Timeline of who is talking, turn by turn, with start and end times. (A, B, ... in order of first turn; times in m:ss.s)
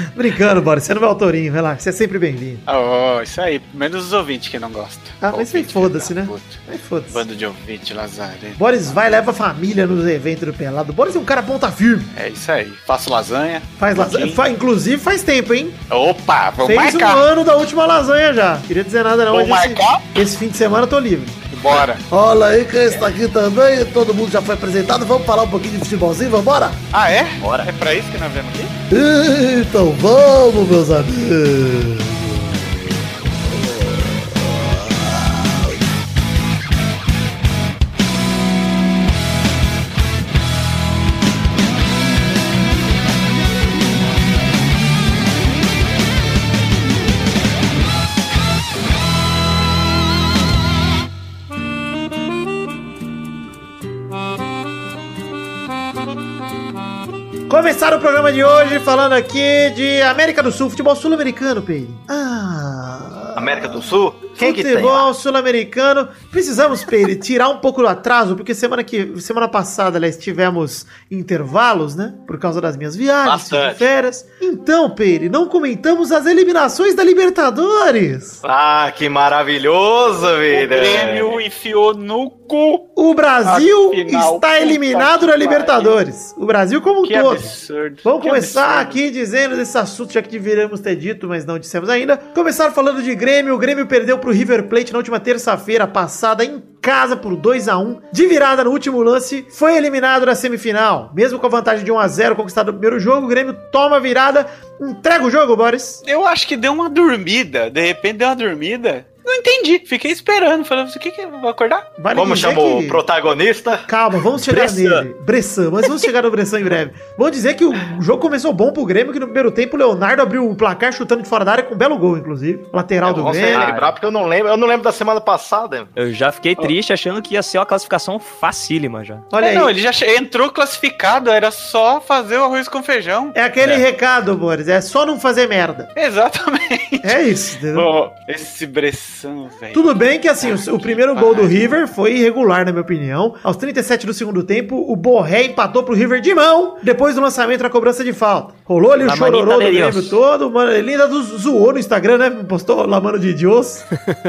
0:00.1-0:02.6 A
0:02.7-0:06.6 B
0:05.2-0:07.2 A
0:07.1-0:08.6 B
0:08.6-0:12.1 A
0:12.2-0:14.4 B
0:13.8-0:15.8 A
0:15.9-0:17.2 B
0:16.6-0:21.4 A
0:19.3-0:20.0 B
0:21.5-0:22.0 B
0:22.1-0:26.8 C
0:26.9-0:28.7 B
0:27.4-0:27.7 D
0:28.9-0:35.8 C
0:57.5-1:18.4 A
1:03.4-1:05.1 E
1:13.2-1:13.8 E
1:18.4-1:21.4 E
1:20.5-1:22.9 B
1:23.0-1:27.5 A
1:23.4-1:26.0 B
1:27.0-1:29.0 B
1:28.0-1:46.0 A
1:46.0-1:51.9 B
1:52.0-1:53.0 A
1:52.1-1:53.9 E
1:53.9-2:03.8 A
1:54.5-1:55.0 D
2:03.0-2:05.9 E
2:03.5-2:03.9 D
2:06.0-2:09.2 D
2:09.3-2:09.7 A
2:09.4-2:13.4 B
2:13.4-2:15.9 A
2:16.0-2:17.2 B
2:17.0-2:17.9 A
2:17.7-2:21.6 B
2:19.7-2:33.9 A
2:29.0-2:30.2 D